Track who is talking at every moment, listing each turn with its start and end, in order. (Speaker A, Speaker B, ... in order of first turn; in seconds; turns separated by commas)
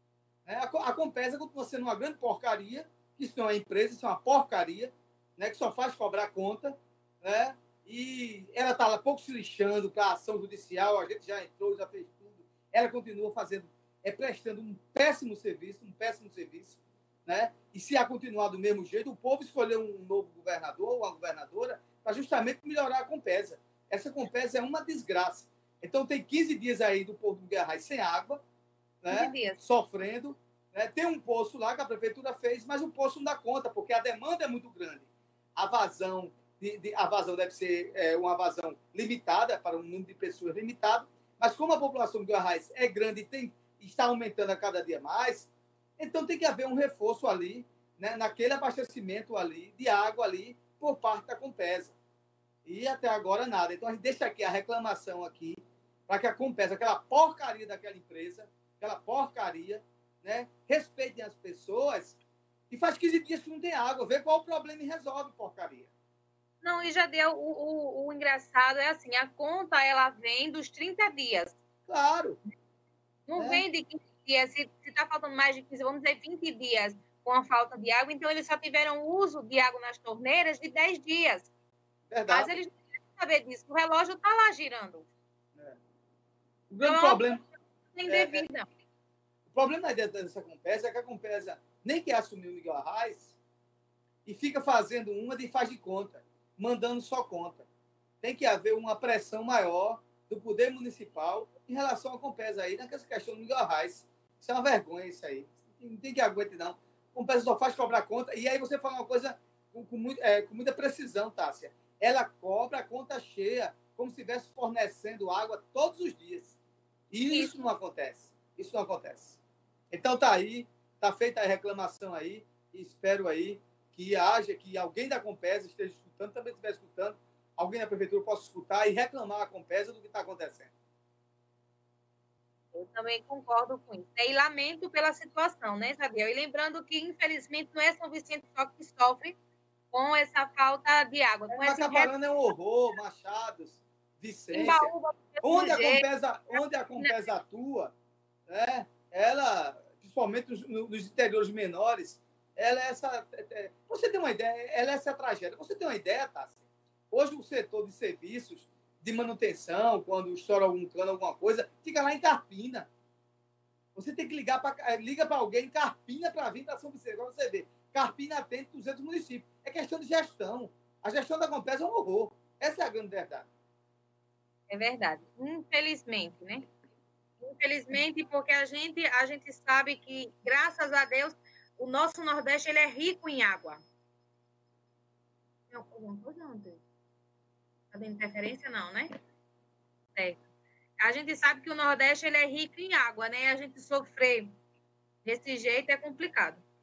Speaker A: 0.5-28.4, Speaker A: 29.0-52.0, Speaker B: 29.1-29.6, Speaker A: 52.6-62.2, Speaker A: 62.7-65.9, Speaker B: 66.6-71.5, Speaker A: 71.9-72.4, Speaker B: 73.3-81.5, Speaker A: 73.4-73.6, Speaker A: 82.1-82.5, Speaker B: 82.3-85.1, Speaker A: 86.7-87.4, Speaker B: 86.8-87.3, Speaker B: 87.9-88.7, Speaker A: 88.1-88.5, Speaker A: 89.5-93.3, Speaker A: 94.2-97.7, Speaker A: 98.2-116.5, Speaker A: 117.1-119.4, Speaker B: 117.3-117.7, Speaker A: 119.9-130.7, Speaker B: 132.7-139.3, Speaker B: 139.9-142.1, Speaker A: 141.5-144.9, Speaker B: 144.5-147.1, Speaker A: 145.4-147.9, Speaker A: 148.5-156.6, Speaker A: 157.1-162.9, Speaker A: 163.9-173.5, Speaker B: 174.7-176.7, Speaker B: 177.4-183.8, Speaker B: 185.7-186.8, Speaker B: 187.9-189.1, Speaker B: 190.2-190.4, Speaker B: 191.0-194.5, Speaker B: 195.2-196.6